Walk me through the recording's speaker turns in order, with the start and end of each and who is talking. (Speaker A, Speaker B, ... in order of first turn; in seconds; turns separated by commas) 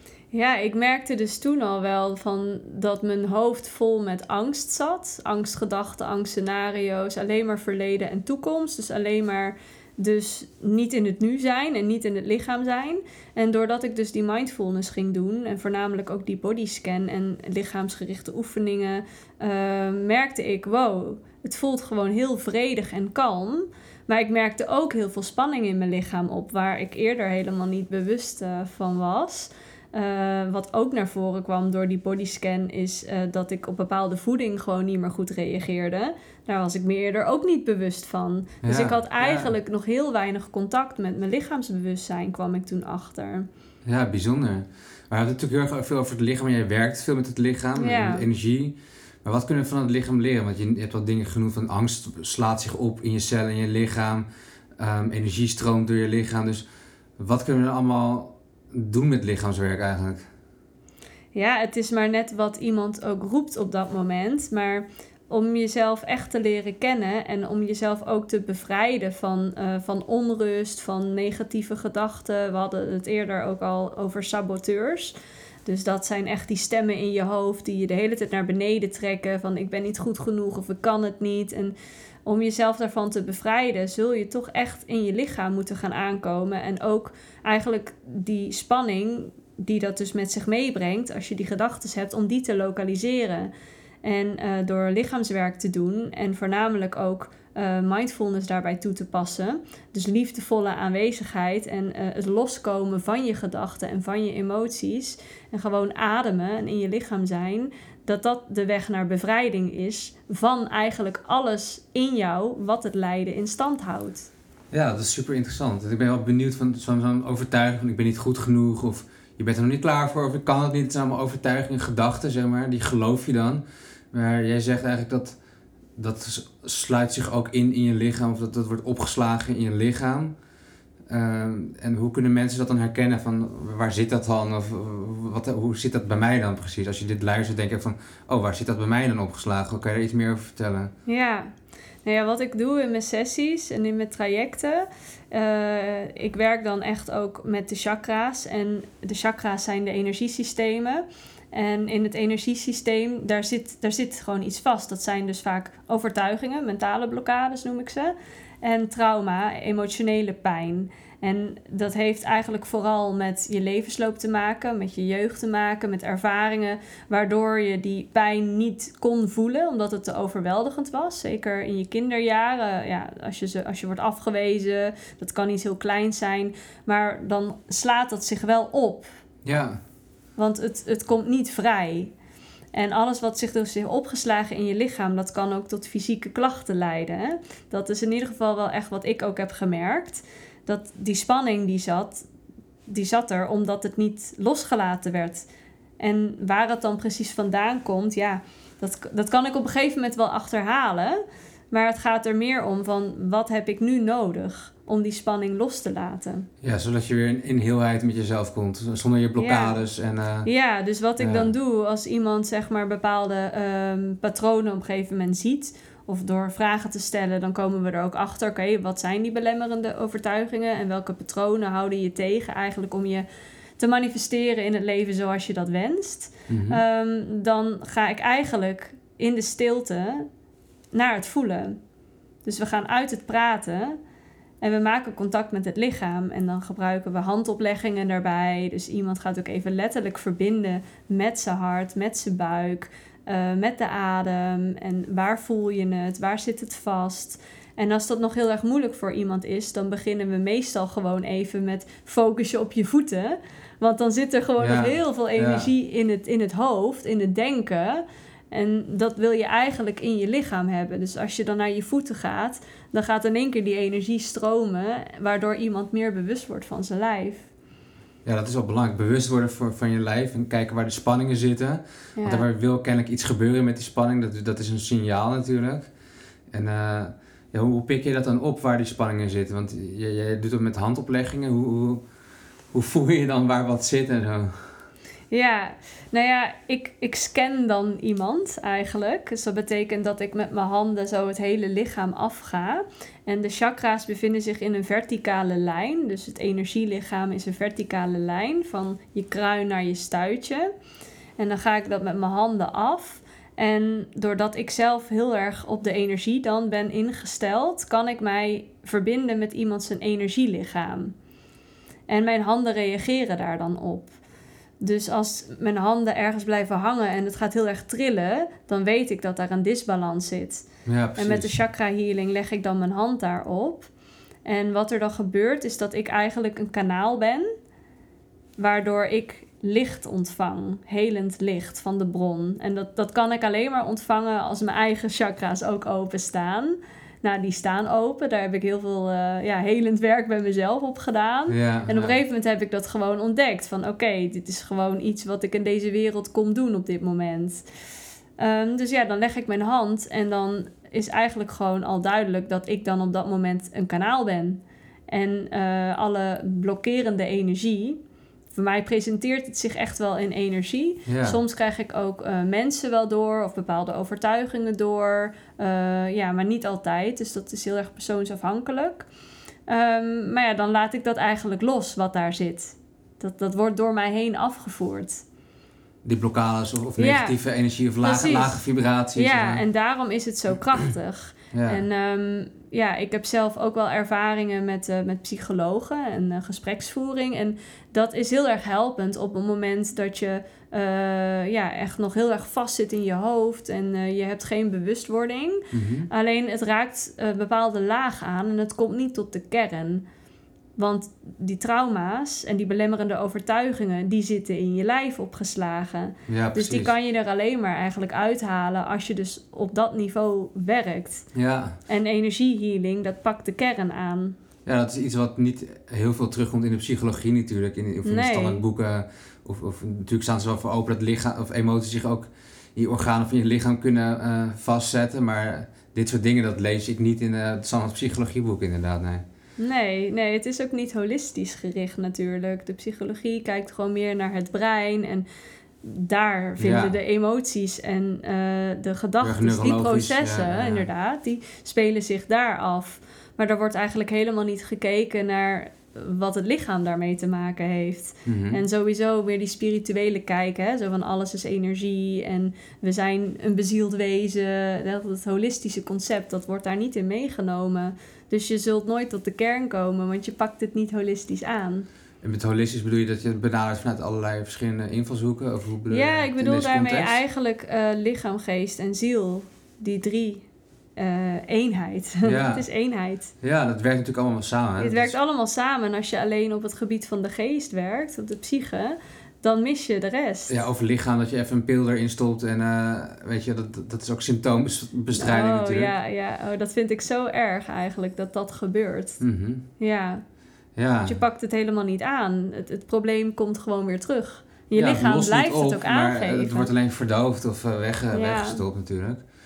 Speaker A: 0.3-43.5, Speaker B: 38.6-39.5, Speaker B: 43.9-54.2, Speaker A: 47.8-48.2, Speaker B: 54.8-56.6, Speaker B: 57.2-60.3, Speaker A: 61.3-75.1, Speaker A: 75.7-81.7, Speaker A: 82.3-93.5, Speaker A: 94.0-114.3, Speaker B: 114.7-125.4, Speaker B: 126.0-130.3, Speaker B: 131.1-140.9, Speaker A: 141.1-141.5, Speaker A: 142.1-179.1, Speaker B: 179.4-179.8, Speaker A: 180.4-182.1, Speaker A: 182.7-192.3, Speaker A: 192.9-195.5, Speaker A: 196.0-206.5, Speaker B: 206.6-210.5, Speaker A: 209.4-209.8, Speaker A: 210.4-223.3, Speaker B: 211.2-211.5, Speaker A: 223.8-230.3, Speaker B: 226.5-226.8, Speaker A: 230.9-231.8, Speaker A: 232.4-234.0, Speaker A: 234.6-267.5, Speaker B: 254.6-255.7, Speaker B: 268.2-275.9, Speaker A: 272.2-272.4, Speaker B: 276.5-282.0, Speaker B: 282.7-284.7, Speaker A: 285.3-300.7, Speaker A: 301.4-311.1, Speaker A: 312.1-314.1, Speaker A: 314.8-320.6, Speaker B: 320.9-321.5, Speaker A: 321.2-323.9, Speaker A: 324.5-327.5, Speaker A: 328.6-347.6, Speaker B: 341.5-342.2, Speaker A: 348.4-358.0, Speaker A: 358.5-369.1, Speaker B: 361.1-361.4, Speaker A: 369.7-375.2, Speaker B: 376.0-379.6, Speaker A: 377.0-377.4, Speaker A: 378.0-400.0, Speaker B: 381.5-381.8, Speaker B: 395.7-396.1, Speaker A: 400.8-411.3, Speaker B: 406.3-406.9, Speaker B: 411.3-411.8, Speaker A: 411.9-414.4, Speaker B: 414.6-429.2, Speaker A: 418.1-418.6, Speaker A: 429.6-435.2, Speaker A: 435.8-461.9, Speaker B: 436.6-437.0, Speaker B: 439.2-440.9, Speaker B: 448.2-448.6, Speaker B: 462.2-467.2, Speaker A: 465.9-470.5, Speaker A: 471.0-473.3, Speaker B: 472.2-472.6, Speaker B: 473.4-475.1, Speaker A: 474.8-480.5, Speaker B: 480.5-485.9, Speaker A: 485.1-489.2, Speaker B: 489.2-489.6, Speaker A: 489.8-490.2, Speaker B: 490.8-491.2, Speaker A: 491.1-496.7, Speaker B: 494.8-499.2, Speaker A: 498.1-498.6